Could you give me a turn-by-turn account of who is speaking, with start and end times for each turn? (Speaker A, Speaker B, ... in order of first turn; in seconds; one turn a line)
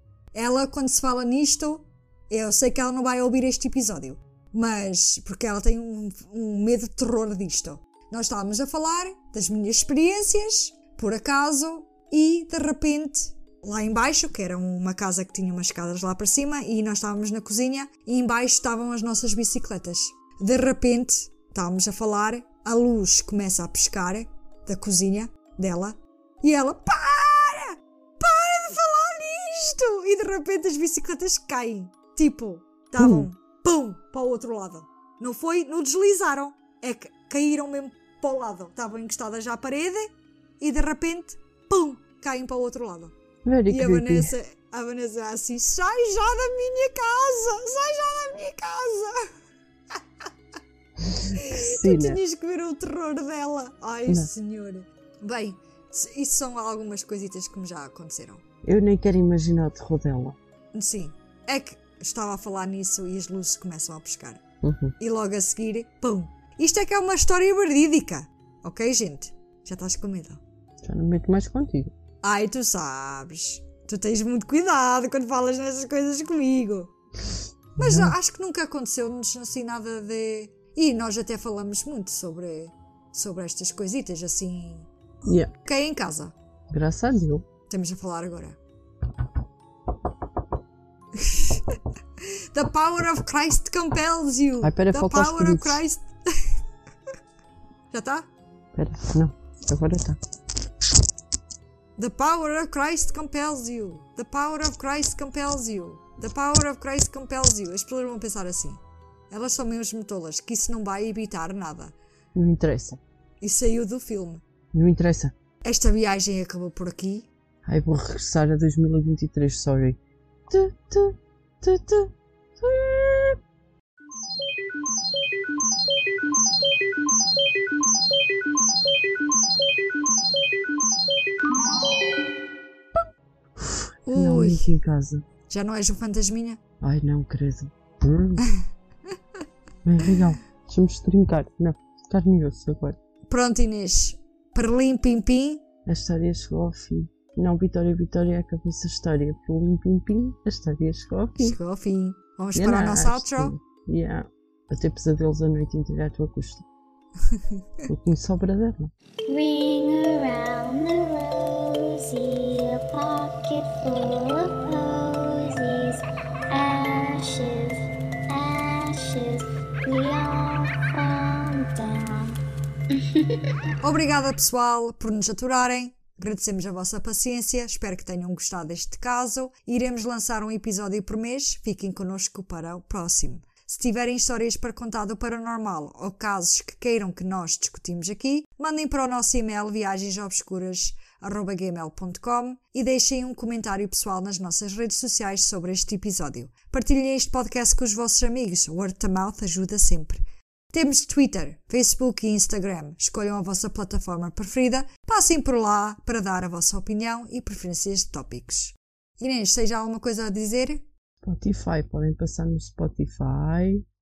Speaker A: 0.3-43.1
Speaker B: 33.0-33.3
Speaker B: 43.5-44.3
Speaker A: 43.7-49.3
Speaker B: 51.0-52.2
Speaker A: 51.3-58.4
Speaker B: 58.6-60.4
Speaker A: 60.7-64.4
Speaker B: 64.6-65.0
Speaker A: 65.0-70.4
Speaker B: 70.8-71.9
Speaker A: 72.2-76.9
Speaker B: 77.8-78.2
Speaker A: 77.8-84.9
Speaker B: 85.3-85.5
Speaker A: 85.7-86.3
Speaker B: 86.7-87.5
Speaker A: 87.7-88.6
Speaker A: 91.1-96.5
Speaker B: 94.6-95.8
Speaker A: 97.9-98.3
Speaker B: 98.7-100.2
Speaker A: 102.0-111.9
Speaker B: 112.3-113.0
Speaker A: 113.4-114.4
Speaker B: 114.7-115.3
Speaker A: 115.6-117.3
Speaker B: 117.7-123.4
Speaker B: 133.6-135.3
Speaker A: 134.1-134.7
Speaker A: 135.5-136.6
Speaker B: 136.8-138.5
Speaker B: 139.8-143.0
Speaker A: 143.3-145.7
Speaker B: 145.8-151.6
Speaker A: 151.4-153.6
Speaker B: 152.6-156.7
Speaker A: 157.3-157.6
Speaker B: 157.9-158.9
Speaker C: 159.3-172.4
Speaker C: 172.9-173.6
Speaker A: 173.8-210.9
Speaker B: 211.2-213.8